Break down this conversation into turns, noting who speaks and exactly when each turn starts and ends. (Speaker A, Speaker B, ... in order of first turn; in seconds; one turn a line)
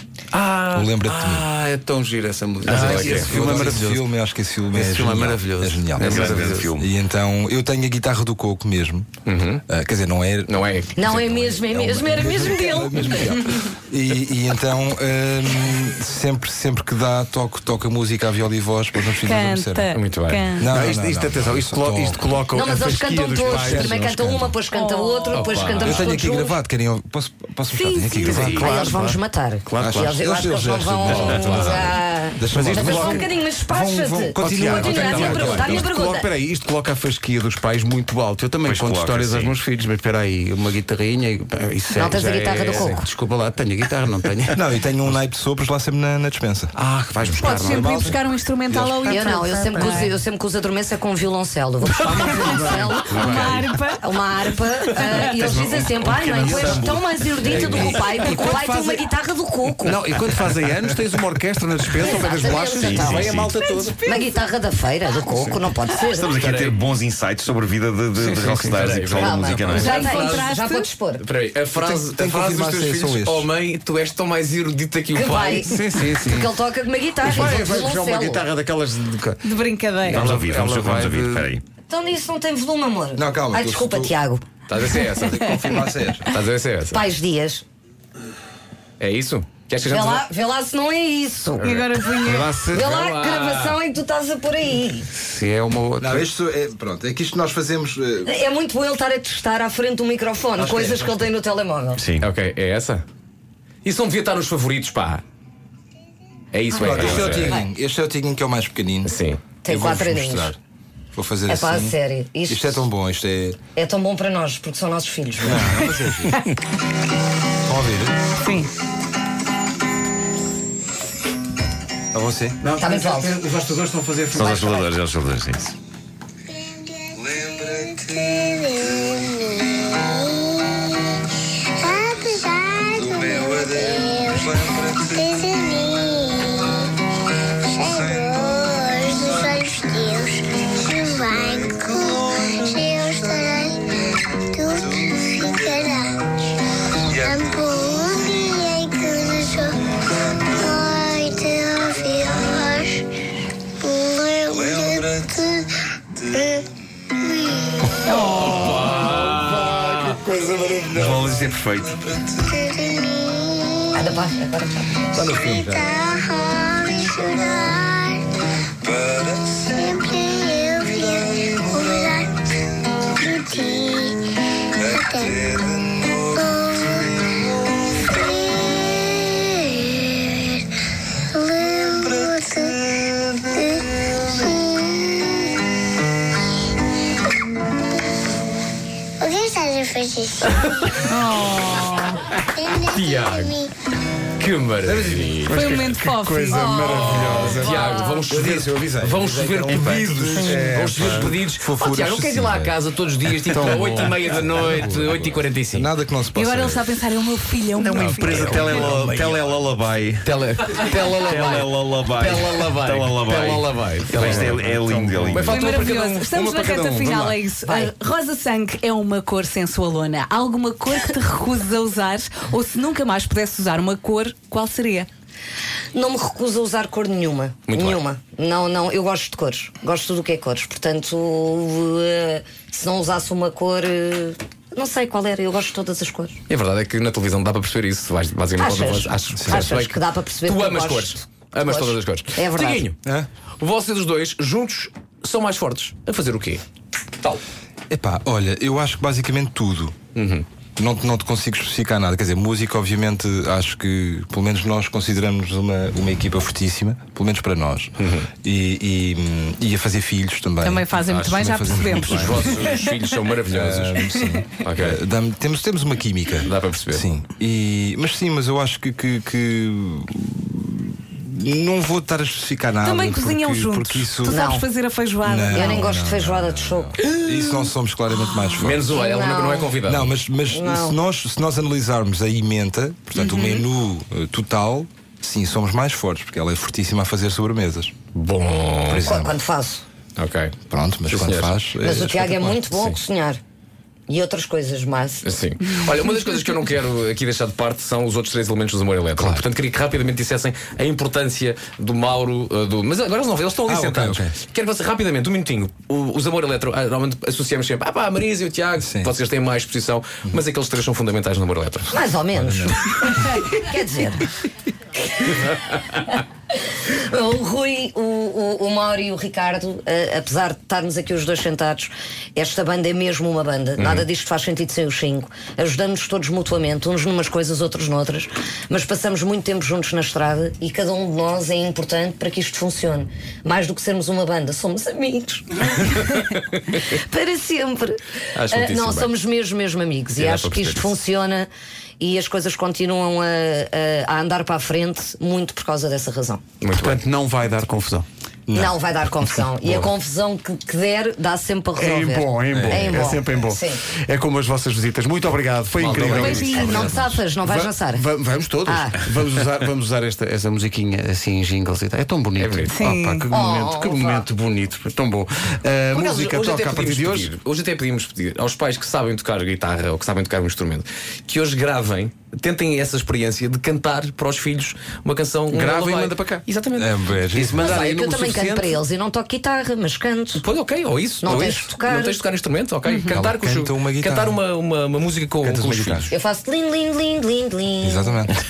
Speaker A: 0.3-4.1
Speaker B: 0.7-1.4
Speaker C: 2.6-3.4
Speaker B: 2.7-9.1
Speaker A: 4.8-6.6
Speaker D: 6.0-6.9
Speaker C: 9.2-9.6
Speaker B: 9.7-19.9
Speaker C: 10.5-11.2
Speaker E: 10.9-13.4
Speaker F: 19.2-20.7
Speaker C: 19.9-20.5
Speaker B: 20.6-22.2
Speaker A: 20.6-24.4
Speaker E: 22.5-26.6
Speaker B: 23.4-24.5
Speaker F: 24.7-25.5
Speaker C: 25.3-26.0
Speaker B: 25.8-28.9
Speaker E: 27.8-36.3
Speaker A: 28.2-30.1
Speaker B: 29.8-35.9
Speaker C: 31.3-31.9
Speaker A: 32.5-33.2
Speaker A: 34.4-44.6
Speaker C: 34.8-35.7
Speaker D: 38.6-39.5
Speaker E: 41.9-43.1
Speaker B: 44.5-46.7
Speaker A: 46.7-48.2
Speaker B: 47.3-49.5
Speaker F: 47.3-50.1
Speaker E: 49.1-60.0
Speaker A: 52.1-53.4
Speaker F: 52.4-55.5
Speaker D: 53.1-53.5
Speaker A: 55.4-59.0
Speaker D: 56.5-56.9
Speaker C: 57.4-58.0
Speaker A: 59.9-64.0
Speaker E: 62.0-63.4
Speaker D: 62.8-63.5
Speaker F: 63.6-64.3
Speaker E: 64.0-66.3
Speaker D: 66.2-70.0
Speaker C: 66.3-66.8
Speaker A: 68.2-68.8
Speaker C: 68.2-70.5
Speaker E: 69.1-71.2
Speaker B: 69.4-69.7
Speaker F: 69.7-70.9
Speaker C: 71.2-75.7
Speaker B: 71.7-73.5
Speaker E: 75.1-78.5
Speaker A: 75.7-76.5
Speaker A: 77.2-79.5
Speaker F: 79.4-80.3
Speaker A: 80.1-81.5
Speaker D: 80.1-81.6
Speaker E: 81.9-84.4
Speaker B: 83.1-84.1
Speaker C: 84.7-85.5
Speaker B: 85.1-86.3
Speaker F: 85.3-85.9
Speaker C: 86.3-87.0
Speaker E: 86.9-87.6
Speaker C: 89.0-90.3
Speaker E: 89.8-91.9
Speaker F: 91.6-92.6
Speaker A: 92.2-92.8
Speaker E: 92.7-95.1
Speaker C: 92.9-93.8
Speaker A: 95.2-96.2
Speaker B: 96.0-98.3
Speaker E: 98.2-102.0
Speaker B: 100.5-101.2
Speaker D: 102.0-102.2
Speaker C: 102.2-103.0
Speaker C: 103.8-105.2
Speaker C: 106.5-107.6
Speaker B: 106.7-109.1
Speaker E: 107.0-107.6
Speaker C: 109.0-109.4
Speaker E: 109.6-110.5
Speaker B: 109.7-110.6
Speaker B: 111.1-113.6
Speaker E: 111.5-112.9
Speaker E: 113.8-115.8
Speaker B: 115.4-116.4
Speaker B: 117.7-118.2
Speaker F: 118.4-118.7
Speaker B: 122.1-122.6
Speaker A: 122.6-124.9
Speaker E: 122.8-123.4
Speaker D: 124.3-125.7
Speaker G: 126.8-136.9
Speaker G: 137.6-143.9
Speaker G: 144.4-146.3
Speaker G: 147.1-149.9
Speaker G: 150.4-153.1
Speaker G: 153.8-158.2
Speaker F: 158.2-158.7
Speaker C: 158.3-160.1
Speaker D: 158.3-162.4
Speaker G: 162.5-163.9
Speaker E: 163.9-165.1
Speaker B: 165.1-165.9
Speaker G: 165.1-168.4
Speaker G: 169.7-172.6
Speaker G: 173.1-177.2
Speaker G: 177.9-180.7
Speaker G: 181.2-182.9
Speaker G: 183.5-185.5
Speaker G: 189.2-190.9
Speaker C: 190.5-191.1
Speaker F: 191.0-192.2
Speaker G: 192.5-193.7
Speaker C: 192.8-193.5
Speaker C: 194.4-195.8
Speaker B: 194.8-195.3
Speaker F: 195.4-197.4
Speaker A: 195.4-197.9
Speaker E: 196.5-198.2
Speaker C: 196.8-205.9
Speaker B: 197.0-202.8
Speaker A: 200.5-201.3
Speaker B: 203.4-206.9
Speaker F: 206.3-208.8
Speaker D: 207.8-210.3
Speaker C: 207.9-208.9
Speaker B: 208.7-209.6
Speaker C: 210.2-217.0
Speaker D: 210.8-215.7
Speaker F: 215.4-225.1
Speaker E: 217.6-217.9
Speaker E: 225.9-236.4
Speaker C: 227.7-228.0
Speaker C: 236.5-242.9
Speaker E: 238.6-242.9
Speaker B: 239.3-239.7
Speaker C: 243.6-246.6
Speaker B: 247.9-249.9
Speaker C: 250.1-250.4
Speaker B: 250.8-262.6
Speaker C: 258.0-258.3
Speaker F: 260.6-263.0
Speaker C: 262.0-264.0
Speaker B: 263.4-274.4
Speaker C: 264.6-265.0
Speaker C: 266.4-267.0
Speaker F: 272.8-275.9
Speaker E: 274.3-274.6
Speaker B: 275.2-278.9
Speaker E: 275.5-277.7
Speaker C: 278.6-280.2
Speaker E: 278.8-279.8
Speaker B: 279.8-287.9
Speaker E: 280.4-281.0
Speaker F: 283.1-283.6
Speaker C: 288.1-289.1
Speaker B: 288.9-289.4
Speaker E: 289.0-289.8
Speaker C: 290.2-290.5
Speaker B: 290.7-293.0
Speaker C: 291.1-291.6
Speaker E: 291.8-293.4
Speaker E: 294.1-295.3
Speaker C: 295.2-312.0
Speaker B: 303.6-304.3
Speaker B: 308.8-309.1
Speaker E: 311.9-314.2
Speaker B: 312.3-312.8
Speaker E: 315.3-316.0
Speaker E: 316.8-336.1
Speaker C: 323.8-324.1
Speaker E: 336.7-341.5
Speaker C: 338.3-339.1
Speaker C: 340.1-341.0
Speaker E: 342.0-346.4
Speaker C: 346.6-347.0
Speaker A: 346.7-348.1
Speaker B: 348.5-348.8
Speaker E: 348.5-353.8
Speaker A: 351.8-367.3
Speaker B: 352.5-353.1
Speaker C: 355.7-357.0
Speaker F: 356.1-357.0
Speaker E: 356.2-358.1
Speaker E: 358.6-359.0
Speaker C: 362.4-362.8
Speaker F: 362.7-363.3
Speaker E: 363.3-364.3
Speaker C: 365.9-377.8
Speaker A: 375.5-376.4
Speaker B: 376.7-377.8
Speaker E: 377.5-380.4
Speaker A: 377.6-378.7
Speaker C: 380.4-386.1
Speaker E: 381.2-382.2
Speaker F: 382.9-383.2
Speaker B: 383.1-384.4
Speaker B: 385.4-386.1
Speaker E: 386.1-388.2
Speaker B: 387.8-388.4